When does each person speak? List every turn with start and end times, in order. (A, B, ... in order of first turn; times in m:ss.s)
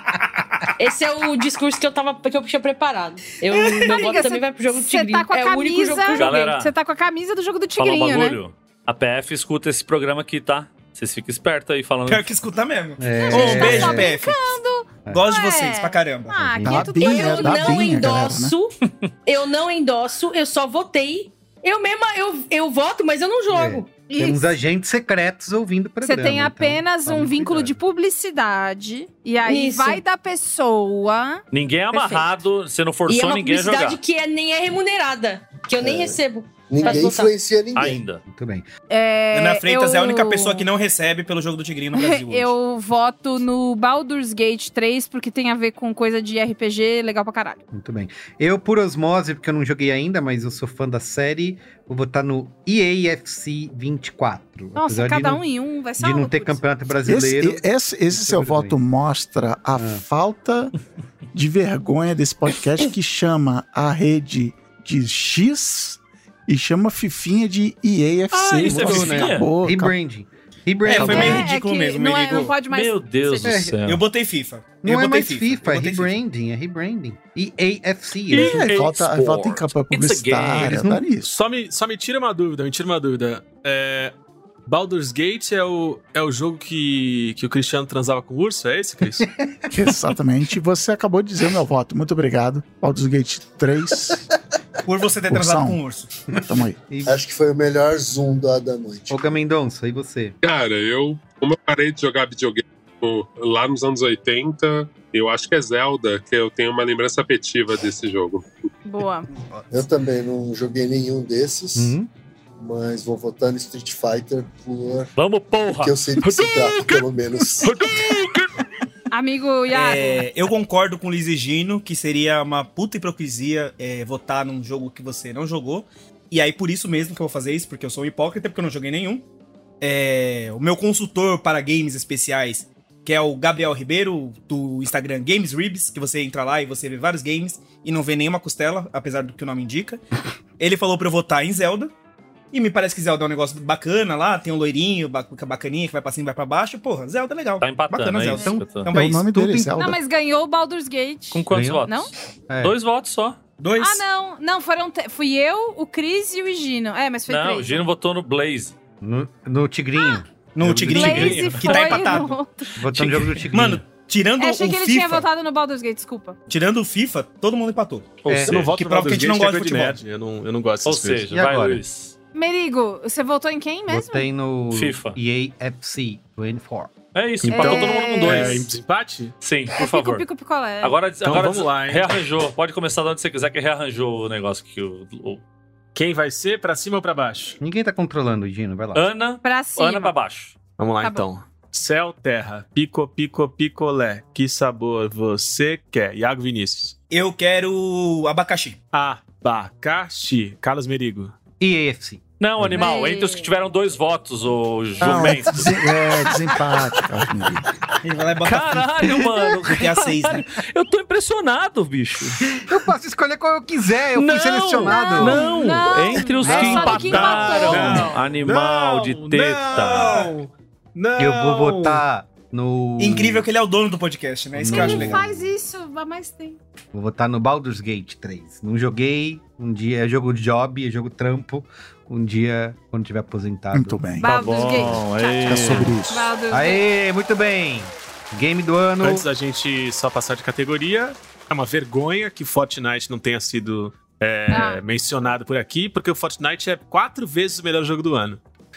0:00.8-0:06.6 A
0:03.6-0:08.4 B
0:06.2-0:06.7 C
0:07.8-0:12.3 C
0:12.1-0:14.6 D
0:13.0-0:14.1 E
0:13.2-0:17.9 B
0:15.1-0:16.5 D
0:16.5-0:17.1 E
0:16.6-0:18.5 F
0:17.0-0:23.9 A
0:23.5-0:27.8 E
0:24.1-0:24.4 B
0:26.0-0:32.2 B
0:29.4-0:30.0 A
0:31.5-0:34.0 C
0:33.1-0:37.4 A
0:35.8-0:36.2 G
0:36.7-0:38.0 G
0:37.8-0:38.2 C
0:38.3-0:38.7 E
0:38.9-0:40.7 B
0:39.3-0:42.5 D
0:41.9-0:47.6 B
0:47.7-0:55.4 E
0:54.8-0:56.6 B
0:56.0-0:58.8 E
0:57.0-1:00.7 F
0:59.8-1:00.0 E
1:01.3-1:10.0 F
1:08.3-1:09.5 C
1:08.6-1:11.4 E
1:10.9-1:12.6 D
1:11.0-1:13.6 B
1:12.7-1:14.0 C
1:13.4-1:13.8 E
1:13.8-1:16.1 D
1:14.8-1:18.8 E
1:18.3-1:21.0 C
1:18.3-1:21.3 F
1:21.3-1:24.1 H
1:24.7-1:29.3 H
1:29.7-1:34.3 F
1:34.8-1:36.1 D
1:35.3-1:35.8 F
1:36.4-1:36.8 F
1:36.9-1:37.2 E
1:37.0-1:39.2 G
1:39.1-1:40.3 E
1:40.4-1:48.4 I
1:48.8-1:49.3 B
1:49.7-1:52.0 G
1:51.8-1:52.1 E
1:52.6-1:55.1 G
1:55.2-1:58.5 C
1:55.8-1:57.9 G
1:59.1-2:00.3 B
1:59.7-2:09.2 D
2:09.8-2:20.0 D
2:20.6-2:21.9 D
2:22.5-2:29.8 D
2:27.6-2:28.9 C
2:28.9-2:30.0 F
2:29.8-2:32.1 B
2:31.3-2:32.1 C
2:31.5-2:31.8 E
2:32.5-2:32.8 E
2:32.6-2:33.4 C
2:33.6-2:34.0 D
2:33.8-2:37.8 B
2:37.3-2:38.8 C
2:39.0-2:41.8 E
2:40.6-2:42.4 D
2:40.9-2:42.8 B
2:42.8-2:43.8 E
2:42.9-2:45.3 D
2:44.4-2:46.4 B
2:46.5-2:50.0 D
2:48.3-2:48.6 E
2:48.3-2:51.3 H
2:50.9-2:52.2 C
2:51.3-2:51.8 E
2:52.3-2:54.3 B
2:53.9-2:56.9 E
2:54.7-2:55.2 C
2:57.2-2:58.7 C
2:57.4-2:59.4 H
2:57.5-2:58.6 B
2:59.4-3:00.3 C
2:59.8-3:01.0 B
3:00.8-3:05.4 C
3:01.2-3:02.2 H
3:06.0-3:07.6 H
3:07.6-3:09.0 E
3:09.0-3:10.6 C
3:09.4-3:10.1 B
3:10.8-3:16.9 H
3:17.1-3:18.8 D
3:18.9-3:21.3 H
3:21.6-3:22.2 E
3:22.4-3:25.8 C
3:22.8-3:23.5 B
3:25.0-3:27.6 F
3:28.0-3:28.9 D
3:28.4-3:32.4 C
3:29.6-3:30.4 D
3:32.6-3:35.4 E
3:34.2-3:40.2 C
3:34.8-3:38.1 B
3:36.4-3:37.0 E
3:36.9-3:42.0 H
3:39.7-3:40.3 D
3:41.2-3:43.5 E
3:43.0-3:45.3 D
3:44.6-3:45.3 E
3:44.7-3:46.6 B
3:46.9-3:54.0 E
3:53.7-3:54.3 F
3:54.2-3:56.8 B
3:54.2-3:56.0 C
3:55.4-3:56.3 F
3:56.5-3:59.3 E
3:59.0-4:08.4 H
4:04.5-4:04.8 B